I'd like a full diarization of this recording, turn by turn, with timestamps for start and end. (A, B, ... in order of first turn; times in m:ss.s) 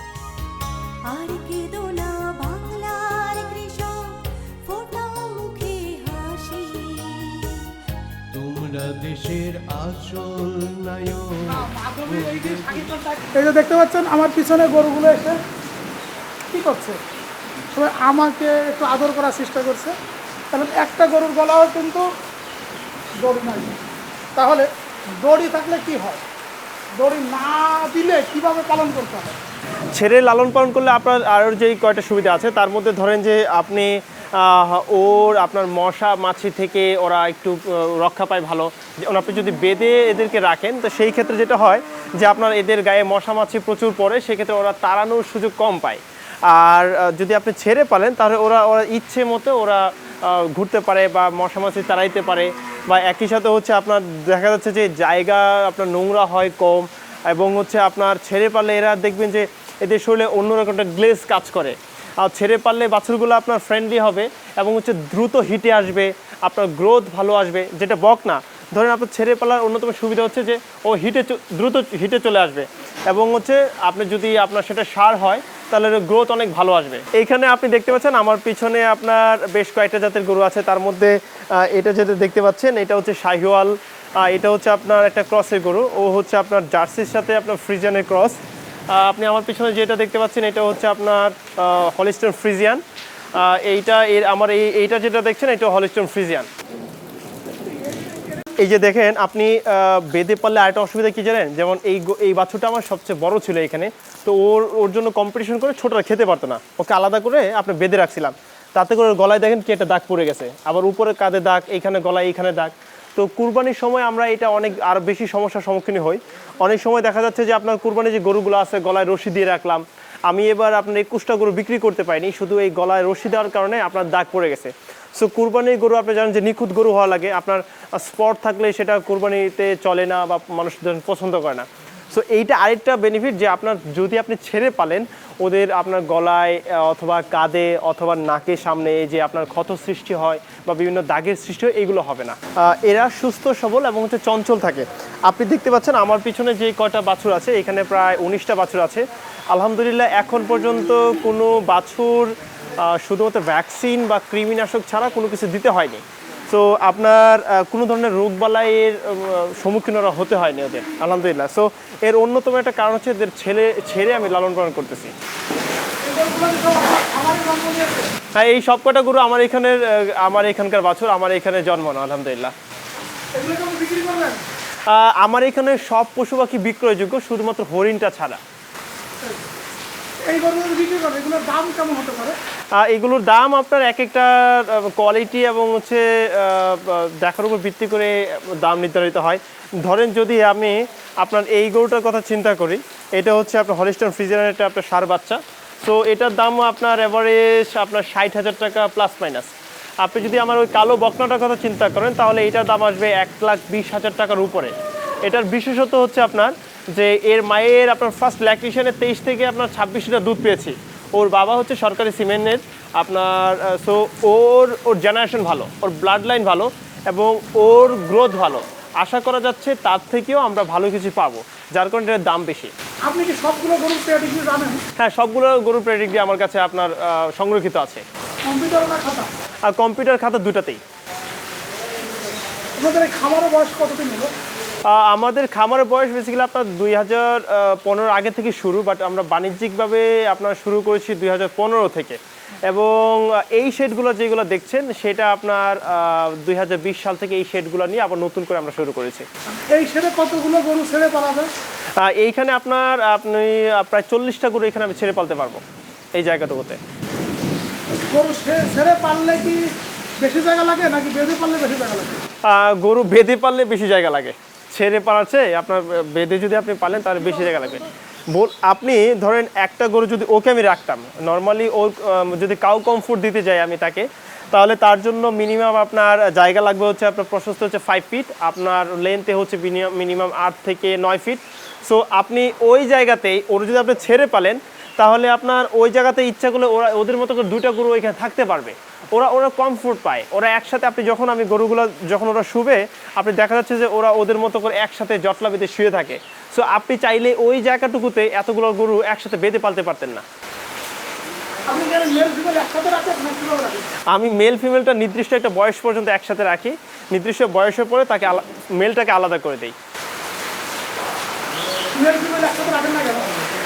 0:01.1-0:07.7 A
0:08.3-0:12.9 B
0:11.4-0:15.4 C
0:16.5-0:17.0 C
0:17.7-0:19.9 C
0:20.5-0:22.0 C
0:23.2-0:23.8 C
0:24.4-0:26.2 C
0:27.0-0:29.4 C
0:29.9-1:28.4 D
1:28.9-1:32.8 D
1:33.4-1:36.5 D
1:37.6-1:38.5 C
1:38.6-2:45.1 D
2:46.0-2:48.1 C
2:48.3-2:52.5 D
2:53.3-2:54.4 C
2:54.9-2:58.4 D
3:00.2-3:02.4 C
3:02.8-3:24.7 D
3:25.2-3:42.7 D
3:43.1-3:44.8 C
3:45.0-3:48.0 D
3:48.4-3:49.3 C
3:49.7-3:50.8 D
3:52.8-3:54.3 C
3:54.9-4:09.3 D
4:09.6-4:11.5 C
4:12.0-4:15.6 D
4:16.1-4:16.8 D
4:18.1-4:19.6 C
4:20.2-4:22.2 C
4:22.5-5:00.2 D
4:27.2-4:27.9 C
5:01.7-5:03.9 C
5:04.1-5:09.7 D
5:11.9-5:13.3 C